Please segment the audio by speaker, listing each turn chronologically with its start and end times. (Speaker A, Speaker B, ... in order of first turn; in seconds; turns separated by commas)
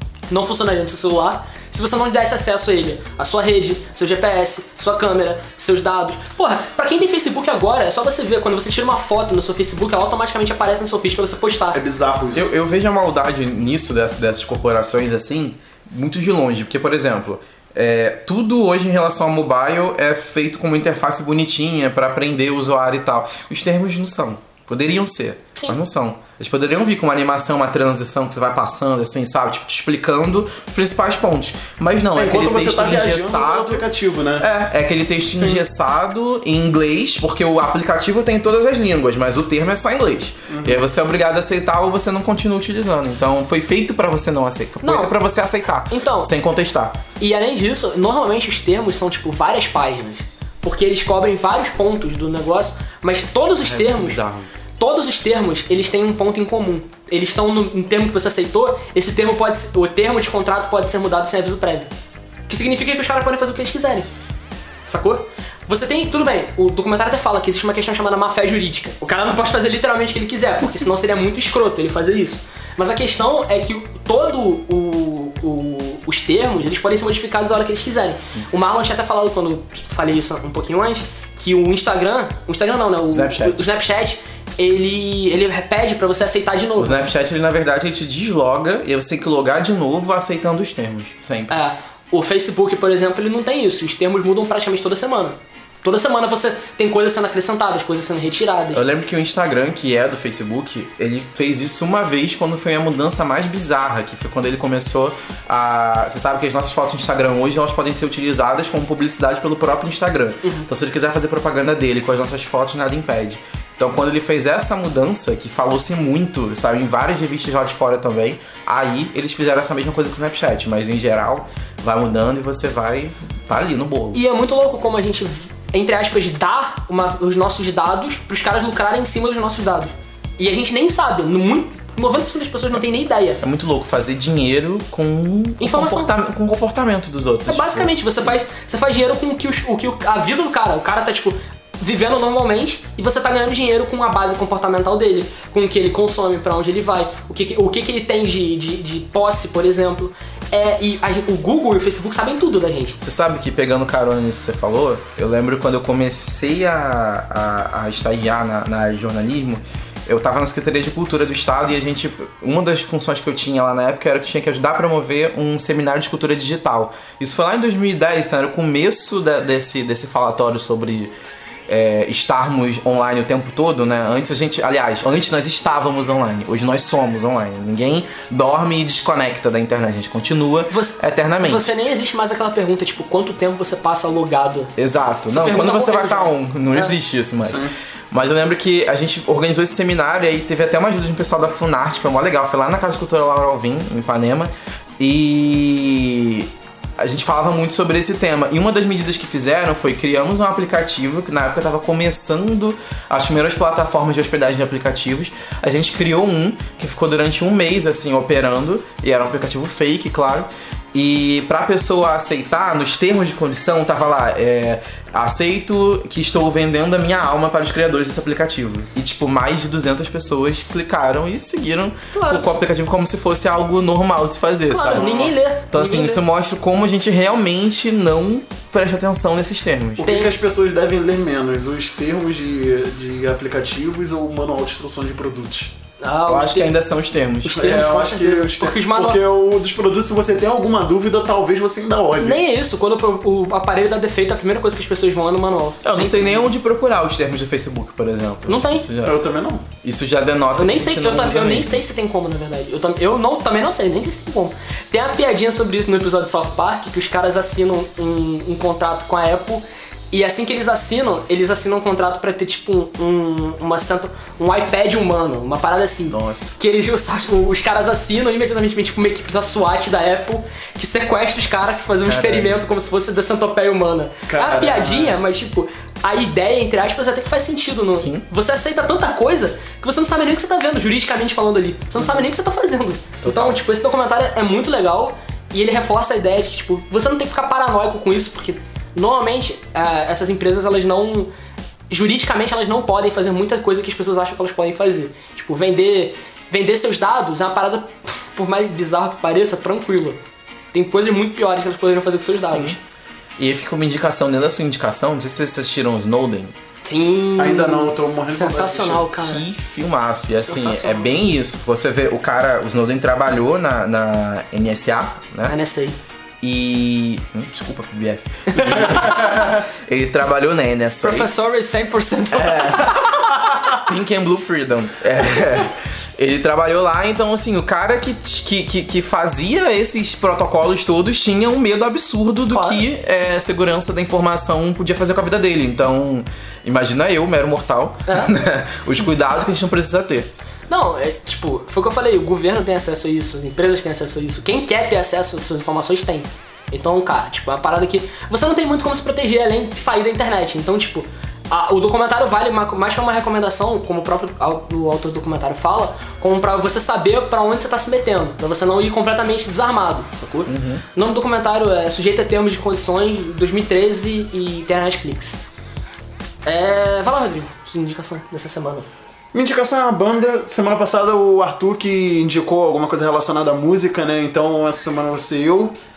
Speaker A: 0.3-11.8, Speaker B: 11.7-12.5, Speaker C: 12.3-33.9, Speaker B: 32.1-34.5, Speaker C: 34.4-47.0, Speaker B: 35.3-35.6, Speaker B: 40.5-40.9, Speaker A: 44.8-45.1, Speaker A: 45.9-46.3, Speaker A: 47.2-54.2, Speaker C: 53.6-54.6, Speaker A: 54.8-61.9, Speaker A: 62.5-64.1, Speaker A: 64.9-87.0, Speaker C: 83.1-83.7, Speaker C: 86.8-91.6, Speaker A: 91.5-98.8, Speaker C: 98.7-124.2, Speaker A: 124.1-133.4, Speaker C: 133.4-137.9, Speaker A: 135.6-136.1, Speaker A: 137.5-153.0, Speaker C: 153.0-171.1, Speaker C: 171.7-181.7, Speaker A: 180.7-184.7, Speaker C: 184.8-230.1, Speaker A: 185.3-187.0, Speaker B: 187.4-187.7, Speaker A: 222.1-222.5, Speaker A: 224.7-226.2, Speaker B: 225.0-225.3, Speaker B: 230.0-235.7, Speaker A: 230.0-230.3, Speaker A: 236.0-236.7, Speaker C: 236.3-237.8, Speaker A: 237.4-239.2, Speaker B: 237.5-242.4, Speaker A: 242.2-246.5, Speaker C: 245.8-249.2, Speaker A: 248.5-248.9, Speaker B: 249.0-249.7, Speaker C: 249.8-251.8, Speaker A: 250.6-291.3, Speaker C: 266.1-266.5, Speaker C: 272.0-272.6, Speaker B: 274.3-275.2, Speaker C: 277.9-278.2, Speaker C: 283.2-283.6, Speaker A: 291.9-300.2, Speaker A: 300.7-302.8, Speaker C: 302.4-302.8, Speaker C: 303.4-306.5, Speaker A: 306.8-309.4, Speaker B: 307.4-309.1, Speaker C: 309.2-315.6, Speaker A: 310.4-311.1, Speaker A: 315.5-316.0, Speaker C: 316.4-321.3, Speaker A: 318.5-319.5, Speaker A: 321.0-323.4, Speaker C: 322.3-340.3, Speaker A: 332.5-332.9, Speaker A: 338.1-338.3, Speaker A: 340.7-365.4, Speaker C: 360.5-360.8, Speaker A: 366.4-368.9, Speaker B: 369.3-375.8